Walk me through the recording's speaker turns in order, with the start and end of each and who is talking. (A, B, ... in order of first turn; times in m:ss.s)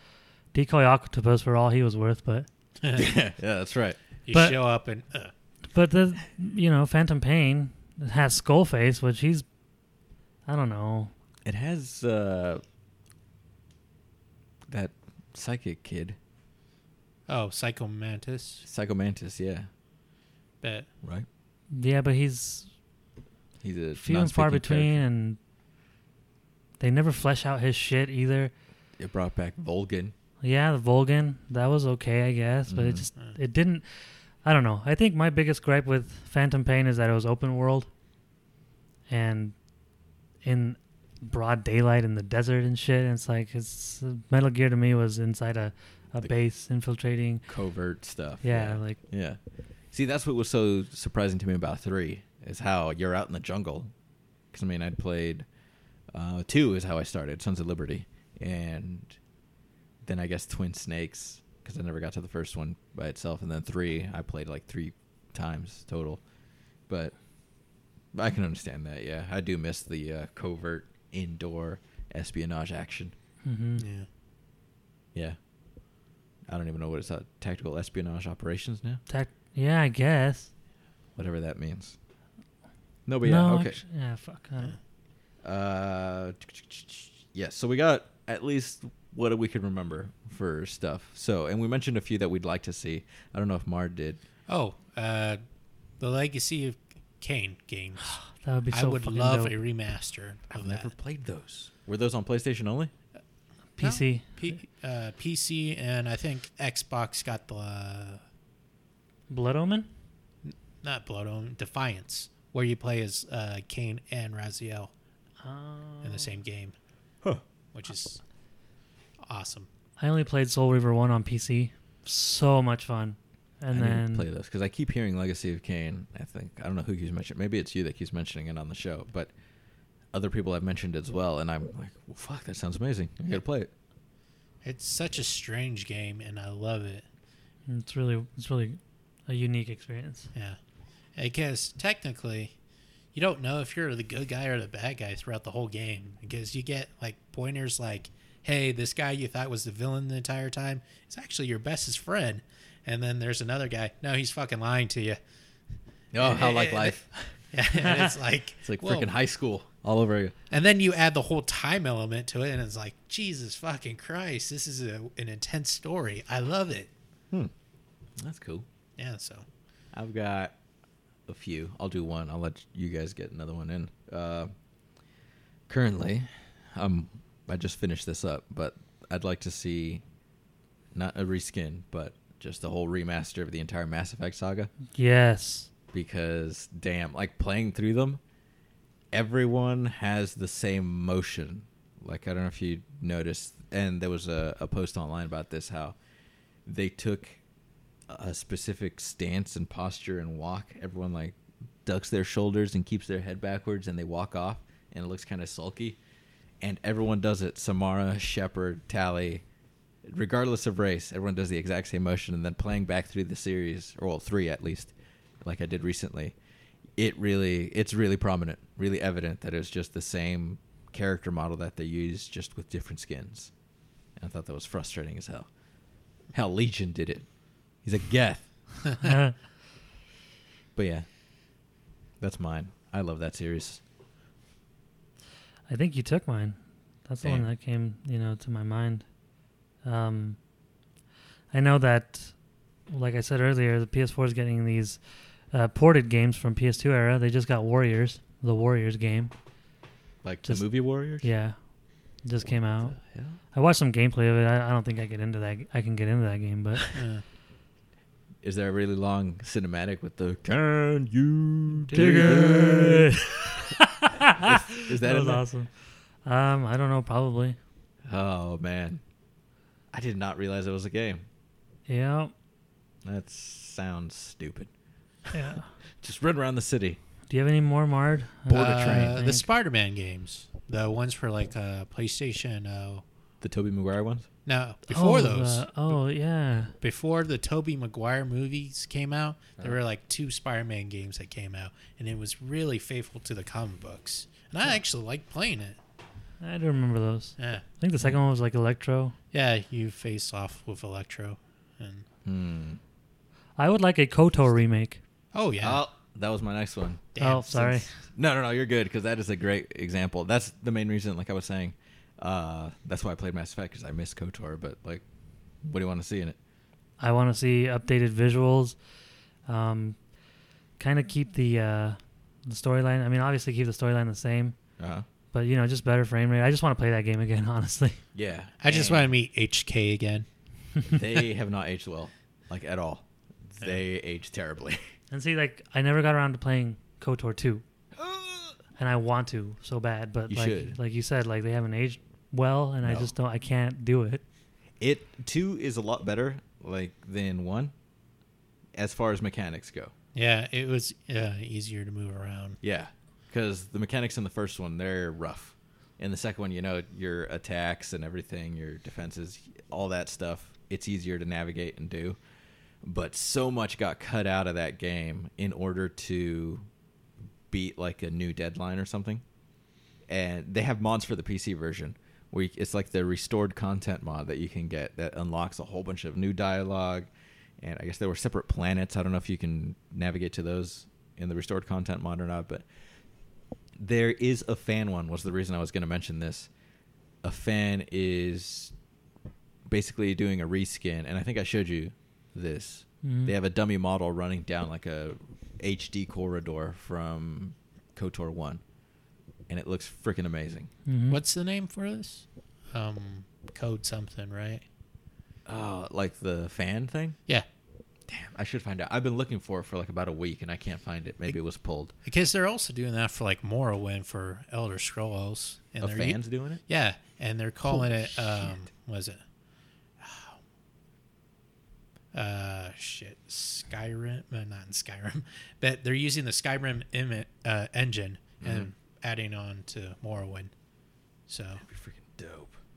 0:00.5-0:02.5 A
0:02.8-0:03.1 B
0:02.9-0:04.0 C
0:04.2-0:05.3 B
0:04.3-0:04.6 A
0:05.7-0:09.4 A
0:10.4-0:11.1 A
0:11.4-0:12.6 C
0:14.7-0:16.2 C
0:17.3-0:18.6 B
0:18.6-0:19.7 C
0:20.6-0:20.9 B
0:21.7-0:22.7 A
0:23.6-0:25.0 C
0:23.9-0:25.4 A
0:26.8-0:28.5 A
0:29.0-0:30.1 C
0:30.4-0:33.8 A
0:32.7-0:33.1 C
0:34.4-0:37.9 A
0:39.1-0:39.5 A
0:40.4-0:47.4 A
0:47.5-0:49.4 C
0:48.4-0:49.0 A
0:49.9-0:53.9 C
0:54.5-0:55.5 C
0:56.1-0:59.2 C
1:00.0-1:06.2 C
1:06.9-1:07.1 C
1:08.1-1:13.1 C
1:13.4-1:13.8 A
1:13.8-1:14.1 B
1:16.5-1:19.0 C
1:19.1-1:20.5 A
1:21.2-1:22.0 C
1:23.0-1:23.8 C
1:23.2-1:24.8 A
1:25.4-1:34.2 C
1:34.5-1:35.4 B
1:36.0-1:38.2 B
1:38.0-1:39.5 A
1:38.7-1:40.9 B
1:40.5-1:42.9 C
1:43.8-1:44.5 A
1:43.8-1:48.2 B
1:49.3-1:49.9 A
1:50.4-1:54.9 B
1:55.4-1:56.4 A
1:56.0-1:56.7 B
1:57.7-1:58.2 B
1:59.2-1:59.7 B
2:00.0-2:04.3 A
2:03.7-2:09.3 C
2:10.1-2:13.7 C
2:14.6-2:17.0 B
2:17.7-2:20.3 A
2:21.2-2:22.5 B
2:23.1-2:35.2 B
2:36.1-2:40.3 C
2:36.2-2:37.0 B
2:37.5-2:39.1 B
2:40.5-2:46.9 B
2:48.2-2:48.6 C
2:49.0-2:49.4 B
2:49.9-2:50.5 C
2:51.3-2:54.5 C
2:55.7-3:00.0 C
3:00.9-3:04.7 C
3:04.9-3:05.7 A
3:05.9-3:08.2 C
3:09.1-3:16.0 C
3:16.6-3:17.4 C
3:18.1-3:26.0 C
3:26.6-3:29.4 C
3:30.1-3:36.3 C
3:37.0-3:43.5 C
3:44.2-3:45.5 C
3:46.3-3:47.2 C
3:47.8-3:48.4 C
3:49.0-3:49.4 A
3:50.8-3:51.0 C
3:52.2-3:53.8 C
3:55.7-3:59.0 A
3:59.8-4:00.4 A
4:01.5-4:02.3 A
4:02.9-4:05.0 A
4:05.5-4:09.3 A
4:10.2-4:11.3 C
4:10.4-4:11.6 A
4:12.2-4:13.0 A
4:12.9-4:13.4 C
4:13.5-4:16.9 A
4:16.9-4:17.2 B
4:18.4-4:23.7 C
4:21.9-4:22.8 B
4:21.9-4:25.7 A
4:24.3-4:25.4 C
4:26.2-4:27.6 A
4:28.1-4:29.0 C
4:29.9-4:31.2 C
4:31.9-4:32.3 A
4:33.0-4:34.7 C
4:35.3-4:35.7 A
4:36.0-4:37.0 C
4:37.3-4:39.4 A
4:38.5-4:39.2 C
4:38.5-4:43.0 B
4:43.4-4:44.3 C
4:44.4-4:46.0 B
4:44.9-4:46.7 A
4:46.8-4:55.8 B
4:56.4-4:59.1 A
4:57.4-4:57.6 B
4:59.3-5:02.0 B
5:02.2-5:02.8 C
5:03.6-5:05.0 A
5:05.3-5:05.8 B
5:05.6-5:07.0 C
5:07.1-5:07.8 B
5:07.2-5:07.8 A
5:08.2-5:15.0 C
5:15.6-5:16.4 C
5:17.0-5:18.8 A
5:19.5-5:20.0 A
5:20.8-5:24.6 A
5:24.8-5:25.0 C
5:25.3-5:28.0 A
5:28.1-5:29.1 C
5:28.6-5:30.2 B
5:30.8-5:34.8 C
5:35.1-5:37.6 A
5:38.0-5:38.6 C
5:38.8-5:44.2 A
5:40.3-5:40.8 C
5:42.8-5:43.1 C
5:44.8-5:47.7 C
5:48.7-5:49.9 C
5:50.1-5:52.6 B
5:52.6-6:02.2 C
6:02.8-6:06.6 C
6:07.5-6:09.2 C
6:10.1-6:17.1 C
6:17.6-6:22.6 C
6:23.8-6:26.5 C
6:27.2-6:28.7 C
6:29.7-6:38.6 C
6:33.0-6:33.3 A
6:39.5-6:40.7 C
6:40.9-6:41.2 A
6:41.1-6:44.6 B
6:45.4-6:47.2 C
6:48.1-6:51.9 C
6:52.0-6:59.2 B
6:55.8-6:56.6 C
6:57.7-6:58.5 C
7:00.0-7:00.4 B
7:02.1-7:10.5 B
7:08.4-7:08.7 C
7:11.3-7:11.6 B
7:11.6-7:12.5 C